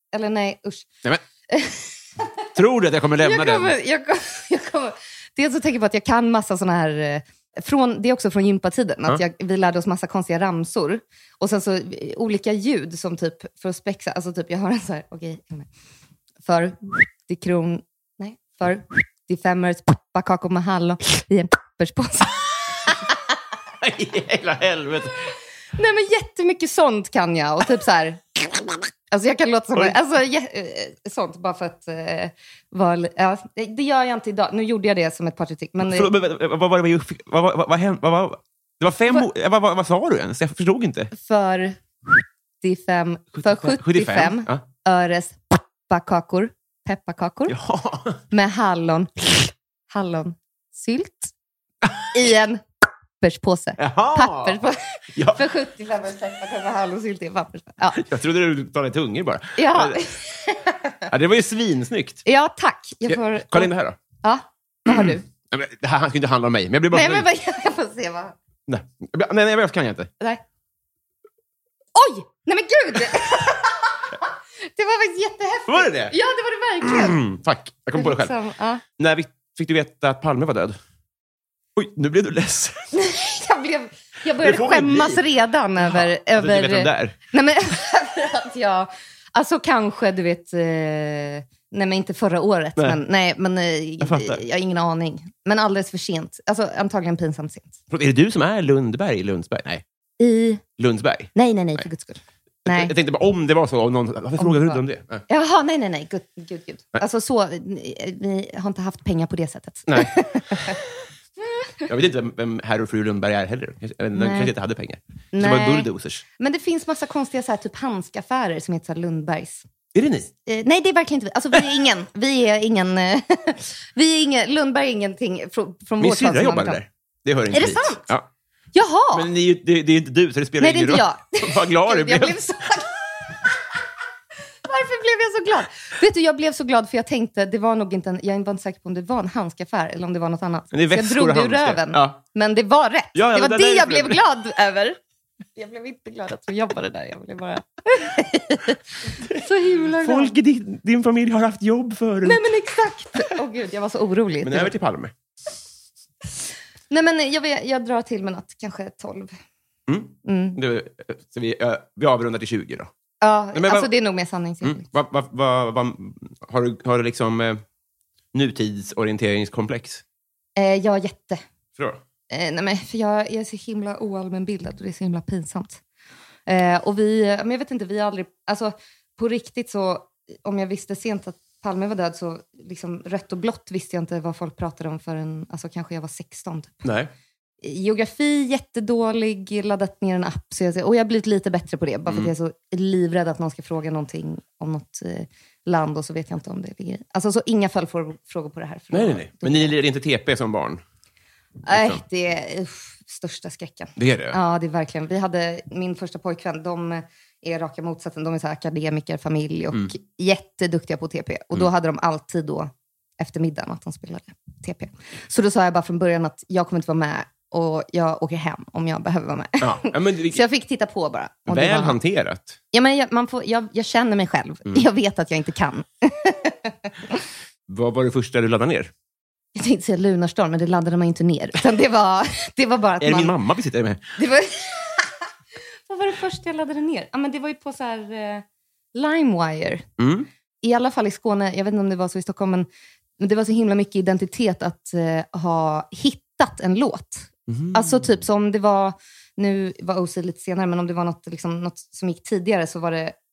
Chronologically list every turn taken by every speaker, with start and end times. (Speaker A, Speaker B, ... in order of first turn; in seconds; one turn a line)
Speaker A: 0.1-0.9
Speaker A: 1.5-2.5
Speaker B: 2.5-3.7
Speaker A: 3.2-15.7
Speaker A: 16.4-23.0
Speaker B: 23.8-25.2
Speaker A: 25.8-36.1
Speaker B: 35.8-41.1
Speaker A: 41.1-41.8
Speaker A: 42.6-47.5
Speaker B: 43.4-44.6
Speaker B: 47.5-48.2
Speaker A: 48.3-51.3
Speaker B: 51.8-52.1
Speaker A: 52.1-52.6
Speaker A: 53.2-58.0
Speaker B: 53.8-54.6
Speaker B: 55.1-55.4
Speaker B: 58.0-60.0
Speaker A: 59.6-61.0
Speaker B: 61.1-62.2
Speaker A: 62.3-63.7
Speaker B: 63.1-64.0
Speaker A: 64.2-65.2
Speaker B: 64.9-67.3
Speaker A: 66.9-68.3
Speaker B: 68.7-70.1
Speaker A: 72.0-77.2
Speaker B: 75.7-76.1
Speaker B: 76.8-78.3
Speaker A: 78.0-78.8
Speaker B: 79.0-80.8
Speaker B: 81.8-82.9
Speaker A: 83.0-97.7
Speaker B: 84.4-85.2
Speaker B: 85.8-87.2
Speaker B: 94.0-94.4
Speaker B: 97.9-99.8
Speaker A: 100.2-100.6
Speaker B: 100.8-101.8
Speaker A: 101.3-102.9
Speaker B: 102.7-105.2
Speaker A: 104.4-110.8
Speaker B: 109.9-110.8
Speaker B: 111.9-116.2
Speaker A: 114.2-114.5
Speaker A: 115.3-119.7
Speaker B: 120.0-120.3
Speaker A: 120.5-126.8
Speaker B: 126.0-128.3
Speaker A: 127.5-128.0
Speaker A: 128.7-129.3
Speaker B: 129.1-132.4
Speaker A: 130.6-132.9
Speaker A: 134.7-145.0
Speaker B: 140.7-142.2
Speaker B: 143.2-144.2
Speaker A: 145.6-148.8
Speaker A: 149.3-150.3
Speaker B: 150.0-152.4
Speaker A: 152.2-154.7
Speaker B: 154.4-155.1
Speaker A: 156.9-159.3
Speaker B: 159.9-162.9
Speaker A: 160.3-160.6
Speaker A: 163.2-164.8
Speaker B: 163.5-163.9
Speaker B: 164.6-167.6
Speaker B: 168.3-170.0
Speaker A: 170.6-171.4
Speaker A: 172.3-175.8
Speaker A: 176.5-186.8
Speaker B: 186.8-187.1
Speaker A: 187.6-199.7
Speaker B: 198.9-200.8
Speaker A: 201.7-222.0
Speaker B: 201.7-202.0
Speaker B: 204.0-204.4
Speaker B: 219.6-220.4
Speaker B: 221.5-222.6
Speaker A: 222.7-227.1
Speaker B: 227.7-228.9
Speaker A: 229.6-233.3
Speaker B: 233.0-234.1
Speaker A: 234.2-235.1
Speaker A: 235.9-239.8
Speaker B: 240.0-240.3
Speaker A: 240.6-242.7
Speaker A: 243.2-253.2
Speaker B: 247.5-248.1